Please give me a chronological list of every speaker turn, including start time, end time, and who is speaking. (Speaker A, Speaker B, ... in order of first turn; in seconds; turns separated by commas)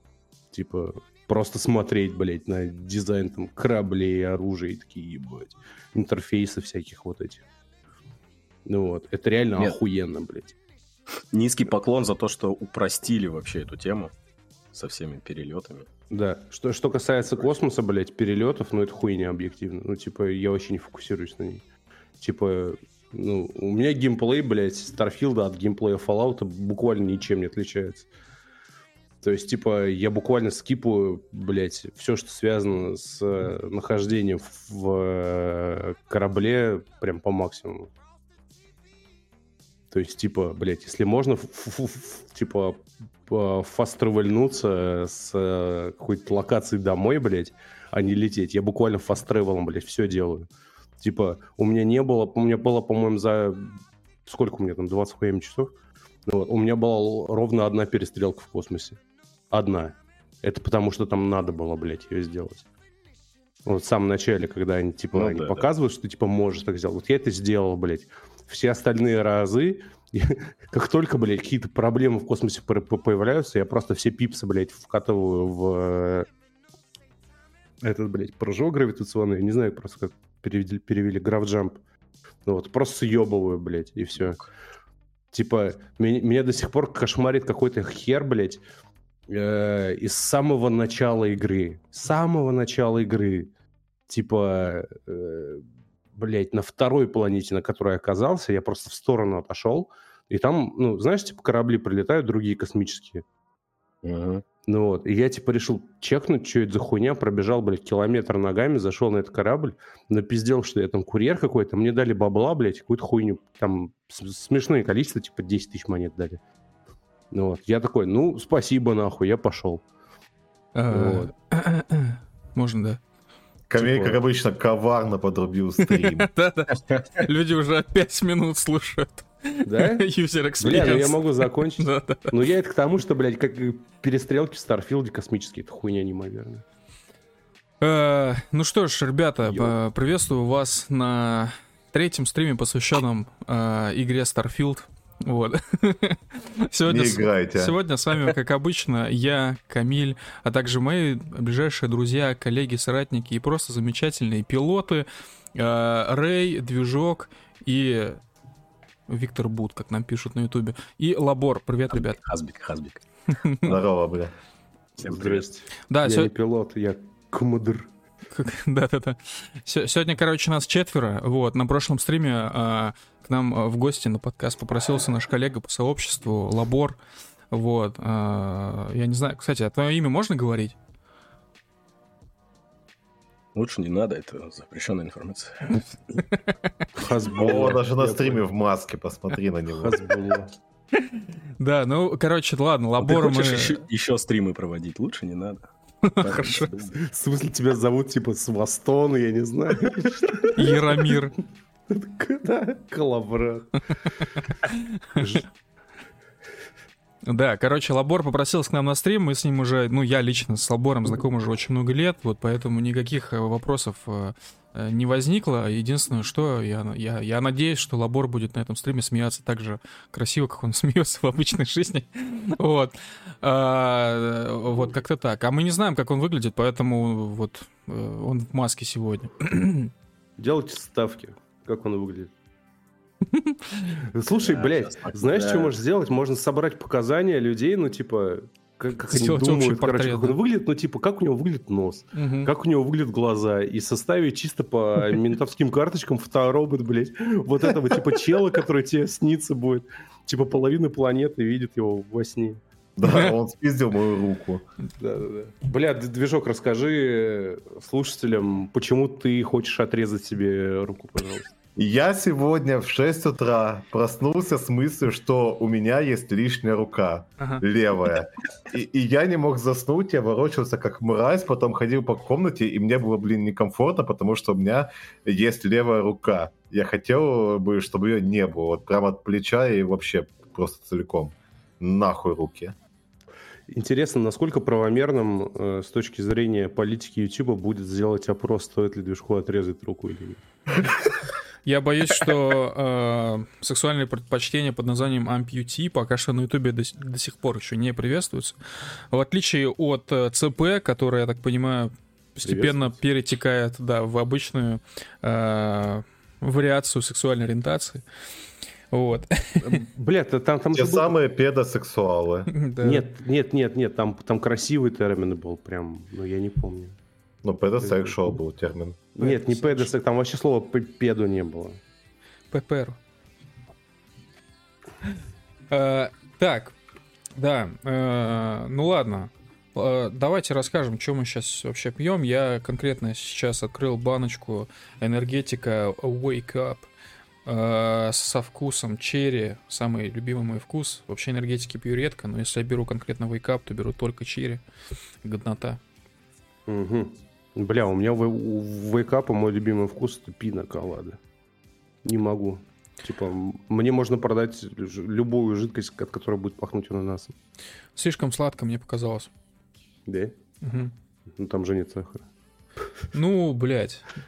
Speaker A: 0.5-7.4, Speaker A: 8.7-10.6, Speaker B: 11.3-14.1, Speaker B: 14.7-15.9, Speaker A: 16.1-21.6, Speaker A: 22.2-28.1, Speaker A: 29.2-37.9, Speaker A: 39.9-50.5, Speaker A: 51.0-55.7, Speaker A: 56.3-59.0, Speaker A: 59.5-62.6, Speaker A: 63.6-76.3, Speaker B: 65.1-65.6, Speaker A: 77.8-81.8, Speaker A: 82.4-84.4, Speaker A: 85.3-88.6, Speaker A: 89.3-93.5, Speaker A: 94.1-95.6, Speaker A: 96.2-103.2, Speaker B: 104.0-104.4, Speaker A: 104.7-116.4, Speaker A: 117.3-119.8, Speaker C: 120.7-123.0, Speaker A: 120.9-121.3, Speaker D: 123.7-126.3, Speaker A: 123.8-124.2, Speaker C: 125.9-132.3, Speaker A: 129.6-130.1, Speaker A: 130.6-136.6, Speaker C: 137.8-158.2, Speaker A: 139.4-139.7, Speaker D: 146.8-147.8, Speaker C: 159.1-162.2, Speaker B: 161.9-163.0, Speaker C: 163.3-163.8, Speaker D: 163.6-164.3, Speaker A: 165.0-167.9, Speaker B: 165.0-165.4, Speaker C: 165.9-166.3, Speaker C: 168.3-177.0, Speaker C: 177.5-180.8, Speaker B: 183.5-186.2, Speaker A: 186.9-188.4, Speaker D: 187.3-190.3, Speaker A: 189.7-190.5, Speaker C: 190.9-193.8, Speaker B: 193.0-195.7, Speaker C: 196.0-196.7, Speaker B: 196.2-196.9, Speaker A: 196.9-201.1, Speaker C: 200.5-201.3, Speaker A: 201.9-204.3, Speaker C: 204.6-205.2, Speaker A: 205.1-205.5, Speaker C: 207.2-229.9, Speaker A: 230.4-232.3, Speaker C: 233.3-234.0, Speaker A: 234.1-252.6, Speaker B: 234.4-235.8, Speaker C: 239.1-240.4, Speaker C: 242.1-242.5, Speaker D: 253.0-254.6, Speaker C: 253.0-253.3, Speaker A: 255.0-261.5, Speaker D: 261.8-282.7, Speaker A: 283.7-290.4, Speaker C: 291.6-308.0, Speaker A: 302.4-302.9, Speaker C: 308.9-309.8, Speaker A: 309.6-311.1, Speaker D: 310.7-312.5, Speaker C: 312.5-313.0, Speaker A: 312.8-317.0, Speaker D: 317.4-319.1, Speaker A: 317.8-318.2, Speaker A: 319.1-321.8, Speaker C: 319.2-319.9, Speaker C: 322.5-323.0, Speaker C: 325.7-326.7, Speaker C: 327.4-336.9, Speaker C: 337.4-344.6, Speaker C: 345.2-345.8, Speaker A: 346.7-351.2, Speaker A: 352.0-357.3, Speaker C: 357.9-359.3, Speaker A: 360.1-360.3, Speaker C: 360.6-360.9, Speaker A: 361.4-362.3, Speaker C: 363.1-364.1